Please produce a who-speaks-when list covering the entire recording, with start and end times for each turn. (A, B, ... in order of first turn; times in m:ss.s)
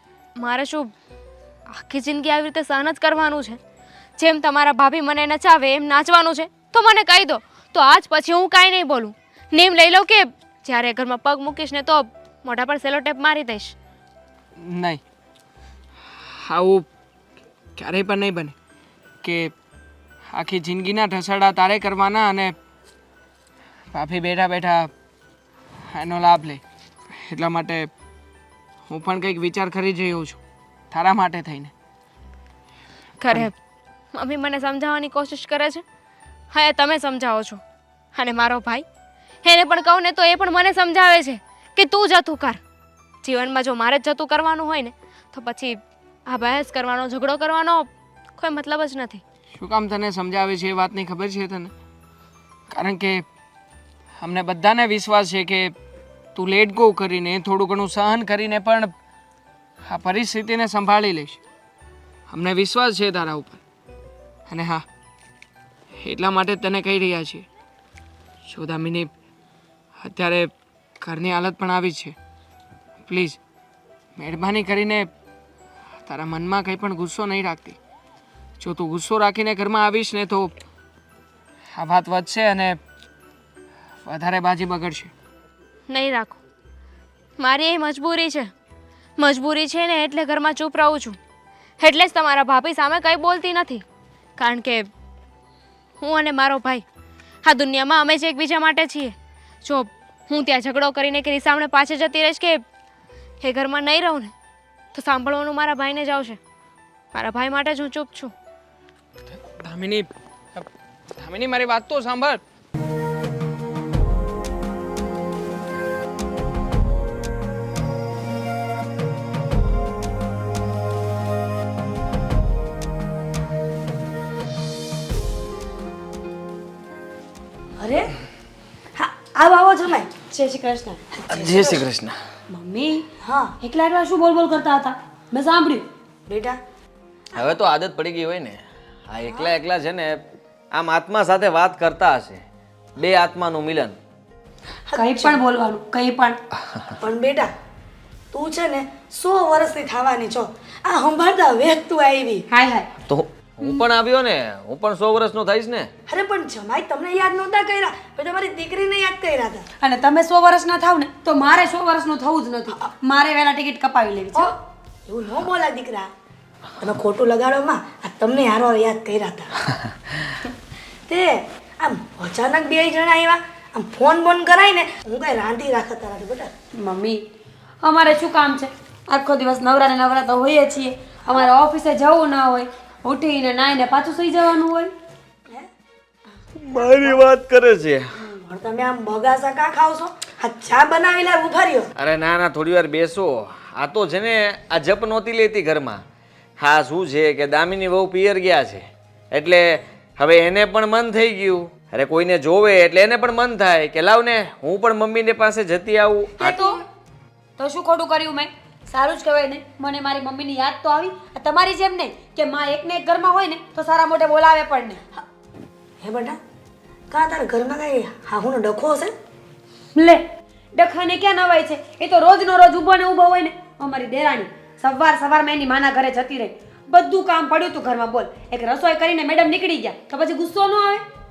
0:00.4-0:00.9 A
0:01.7-0:03.6 A
0:04.2-0:13.8 A
0:14.6-0:15.0 B
0:16.3-0:16.9 B
0:17.8-0:18.5 B
0:19.2-0:19.5 B
0:20.3-0:22.5 B
0:23.9-0:24.9 B
0:25.9-0:26.6 B
0:27.2-0:27.9 B
0:28.9-0:30.4 B
0:30.9-0:31.7 B
0:33.2-0:33.5 A
0:34.1-0:35.8 A
0:36.5-0:37.6 A
0:38.2-0:38.8 A
0:39.4-0:42.6 A
0:43.2-0:49.2 A
0:49.6-0:51.7 B
0:52.7-0:53.2 B
0:54.2-0:55.7 B
0:56.4-0:58.9 B
0:59.9-1:01.4 B
1:02.3-1:03.6 B
1:04.5-1:04.8 B
1:06.0-1:07.4 B
1:08.5-1:09.1 B
1:10.0-1:12.2 B
1:13.1-1:13.4 B
1:14.2-1:15.1 B
1:16.1-1:17.8 B
1:18.6-1:20.5 B
1:21.7-1:22.8 B
1:24.0-1:25.1 B
1:25.9-1:26.4 A
1:27.4-1:28.5 A
1:29.2-1:31.2 A
1:31.8-1:33.8 A
1:34.4-1:34.9 A
1:36.0-1:36.8 A
1:37.4-1:42.6 A
1:43.4-1:44.3 A
1:44.9-1:46.4 A
1:47.1-1:48.3 A
1:49.3-1:52.4 B
2:07.8-2:08.1 C
2:09.0-2:10.1 C
2:10.3-2:11.2 D
2:11.3-2:12.2 E
2:11.3-2:11.8 C
2:12.5-2:13.1 D
2:13.2-2:13.5 C
2:13.6-2:15.8 D
2:16.3-2:16.6 C
2:17.4-2:22.4 E
2:19.3-2:19.5 C
2:23.0-2:24.0 E
2:24.9-2:25.4 C
2:25.0-2:26.4 D
2:27.0-2:27.5 C
2:28.3-2:32.4 C
2:32.5-2:32.9 D
2:33.1-2:35.9 E
2:36.1-2:39.7 C
2:39.8-2:44.5 D
2:44.4-2:46.1 C
2:46.8-2:49.5 C
2:51.1-2:56.5 C
2:56.8-2:57.2 D
2:57.8-3:04.9 D
3:06.6-3:08.2 E
3:06.8-3:07.2 C
3:08.3-3:11.9 C
3:12.0-3:16.0 E
3:16.6-3:26.6 E
3:26.4-3:26.8 D
3:26.4-3:26.8 C
3:27.6-3:35.0 D
3:36.0-3:36.4 C
3:37.1-3:39.1 C
3:39.9-3:40.2 D
3:40.8-3:51.0 D